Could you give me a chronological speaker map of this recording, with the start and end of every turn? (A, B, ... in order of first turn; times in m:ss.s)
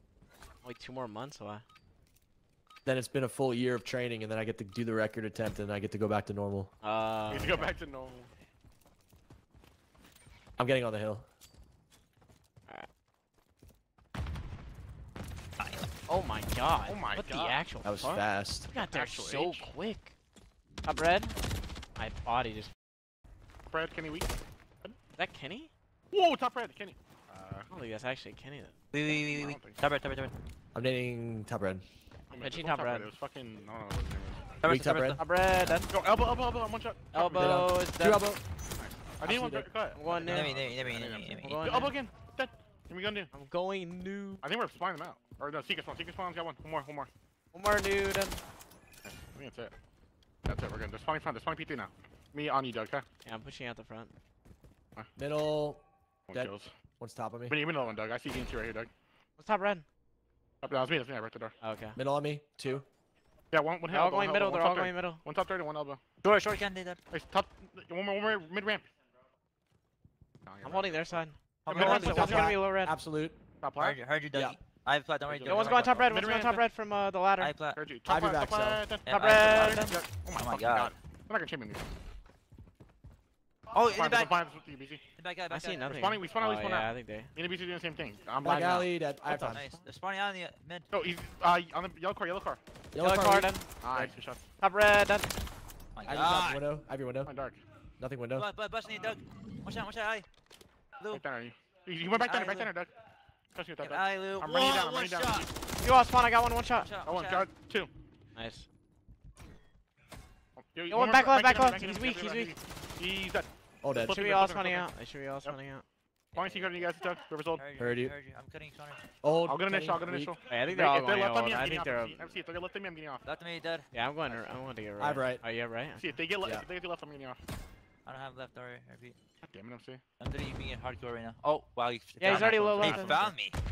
0:00.6-0:01.6 A
0:02.8-0:06.7 B
0:06.8-0:07.7 A
0:07.3-0:08.3 C
0:10.6-0:11.2 B
0:15.6-0:15.9 D
0:16.1-0:20.1 A
0:16.8-0:17.6 C
0:17.8-0:18.7 B
0:18.7-0:19.7 C
0:20.8-0:21.3 A
0:22.0-0:22.7 A
0:23.7-0:24.3 C
0:25.2-0:25.7 A
0:26.1-0:27.7 C
0:27.7-0:28.7 A
0:28.9-0:30.3 D
0:29.0-0:29.8 C
0:30.7-0:31.8 B
0:32.3-0:34.5 C
0:32.4-0:33.1 A
0:34.6-0:35.2 D
0:34.6-0:35.7 B
0:35.2-0:35.9 A
0:35.9-0:37.8 C
0:37.1-0:38.3 A
0:37.3-0:38.4 B
0:38.8-0:43.3 C
0:39.2-0:39.7 B
0:39.9-0:40.5 A
0:40.1-0:41.6 D
0:41.4-0:42.0 A
0:43.3-0:44.4 A
0:44.4-0:47.1 C
0:47.5-0:48.4 A
0:49.0-0:49.7 C
0:50.4-0:53.0 C
0:53.2-0:54.1 A
0:55.2-0:57.6 B
0:56.3-0:56.7 C
0:57.5-0:58.9 C
0:59.4-0:59.8 A
1:00.6-1:01.5 C
1:01.6-1:02.0 A
1:01.9-1:02.8 B
1:03.5-1:06.0 C
1:03.9-1:05.2 A
1:06.2-1:07.0 D
1:07.1-1:08.9 C
1:10.4-1:11.2 C
1:10.6-1:12.9 A
1:11.6-1:12.5 D
1:11.7-1:12.5 C
1:11.8-1:13.4 B
1:13.6-1:14.0 C
1:13.8-1:16.2 D
1:14.3-1:14.6 B
1:15.3-1:16.6 C
1:15.4-1:17.5 A
1:17.4-1:17.8 D
1:17.7-1:21.8 C
1:18.0-1:18.8 B
1:19.0-1:20.9 D
1:19.1-1:20.0 A
1:23.7-1:24.3 D
1:23.9-1:25.0 C
1:25.2-1:25.8 D
1:25.5-1:27.3 A
1:25.8-1:29.6 C
1:28.4-1:29.7 B
1:29.2-1:30.9 D
1:30.9-1:32.6 C
1:32.9-1:34.2 B
1:33.0-1:33.7 A
1:33.8-1:34.4 C
1:34.6-1:35.3 A
1:35.9-1:36.6 D
1:36.0-1:37.3 B
1:37.2-1:37.6 C
1:38.0-1:38.5 B
1:38.4-1:40.2 D
1:41.1-1:42.9 C
1:42.2-1:42.7 D
1:43.5-1:45.5 C
1:43.8-1:45.5 D
1:45.8-1:46.9 A
1:46.7-1:47.5 D
1:47.0-1:47.9 C
1:48.3-1:48.6 A
1:50.6-1:54.9 C
1:50.9-1:52.6 A
1:53.8-1:54.2 B
1:54.1-1:55.8 A
1:56.3-1:56.9 D
1:56.4-1:57.6 C
1:57.5-1:59.0 D
1:57.8-1:58.1 B
1:59.2-2:00.4 B
1:59.4-2:03.3 C
2:00.4-2:02.3 A
2:03.2-2:04.5 D
2:03.9-2:06.0 A
2:05.0-2:05.4 B
2:05.9-2:07.4 C
2:08.0-2:09.2 D
2:09.4-2:10.0 C
2:10.2-2:13.6 D
2:12.2-2:13.3 A
2:12.2-2:13.2 C